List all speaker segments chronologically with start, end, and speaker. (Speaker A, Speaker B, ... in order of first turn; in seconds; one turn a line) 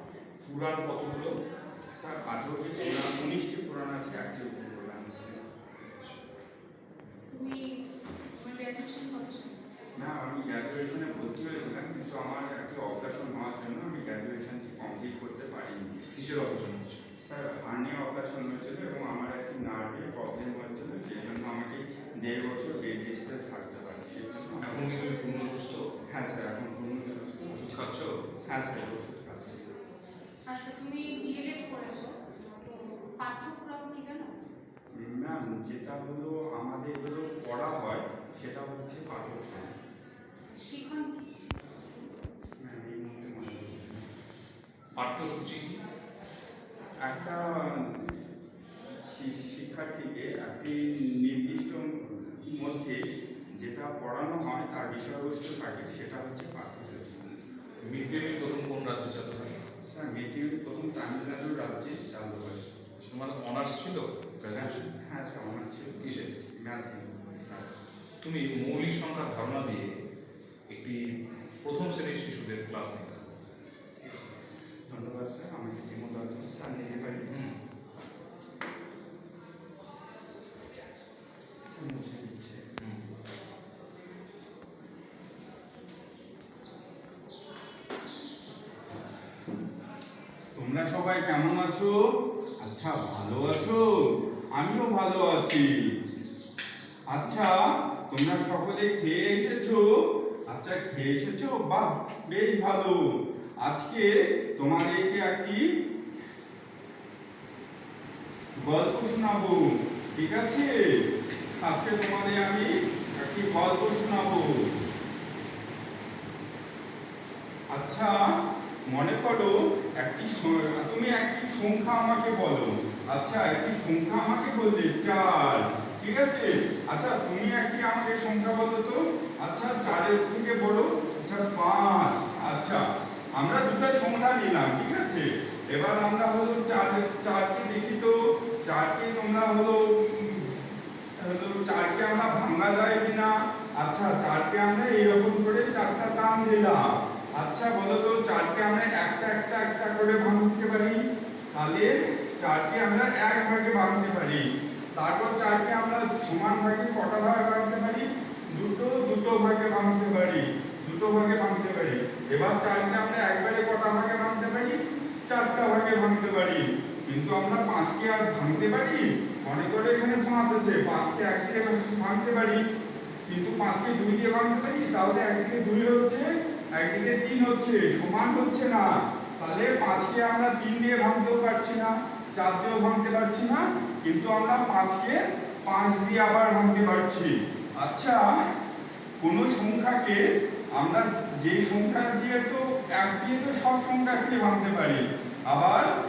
Speaker A: 0.4-1.4
Speaker B: 2.0-5.4
Speaker A: 5.8-6.2
Speaker C: 7.3-7.8
Speaker C: 8.4-9.6
Speaker B: 10.0-15.9
Speaker A: 16.1-17.0
Speaker B: 17.2-25.1
Speaker A: 24.6-25.8
Speaker B: 26.1-27.7
Speaker A: 27.5-28.1
Speaker B: 28.5-29.6
Speaker C: 30.5-34.3
Speaker B: 35.0-39.7
Speaker C: 40.5-41.2
Speaker B: 42.6-44.1
Speaker A: 45.0-45.8
Speaker B: 47.0-48.1
Speaker B: 49.0-53.0
Speaker B: 53.6-57.3
Speaker A: 57.8-59.6
Speaker B: 59.9-62.7
Speaker A: 63.0-64.9
Speaker B: 64.5-67.1
Speaker A: 66.0-66.3
Speaker A: 68.2-69.9
Speaker A: 70.7-71.0
Speaker A: 71.6-73.3
Speaker B: 74.0-74.3
Speaker B: 74.9-77.4
Speaker A: 77.3-77.5
Speaker B: 81.7-82.6
Speaker A: 82.8-83.0
Speaker B: 90.6-91.9
Speaker B: 92.6-93.9
Speaker B: 94.5-95.7
Speaker B: 97.1-97.6
Speaker B: 98.1-99.8
Speaker B: 100.5-103.0
Speaker B: 103.6-105.6
Speaker B: 108.7-110.8
Speaker B: 111.6-114.7
Speaker B: 117.7-118.2
Speaker B: 118.9-132.8
Speaker B: 133.4-140.5
Speaker B: 141.2-151.0
Speaker B: 151.5-154.4
Speaker B: 155.0-164.8
Speaker B: 165.3-172.6
Speaker B: 173.3-176.2
Speaker B: 176.8-188.3
Speaker B: 189.2-190.2
Speaker B: 190.8-195.9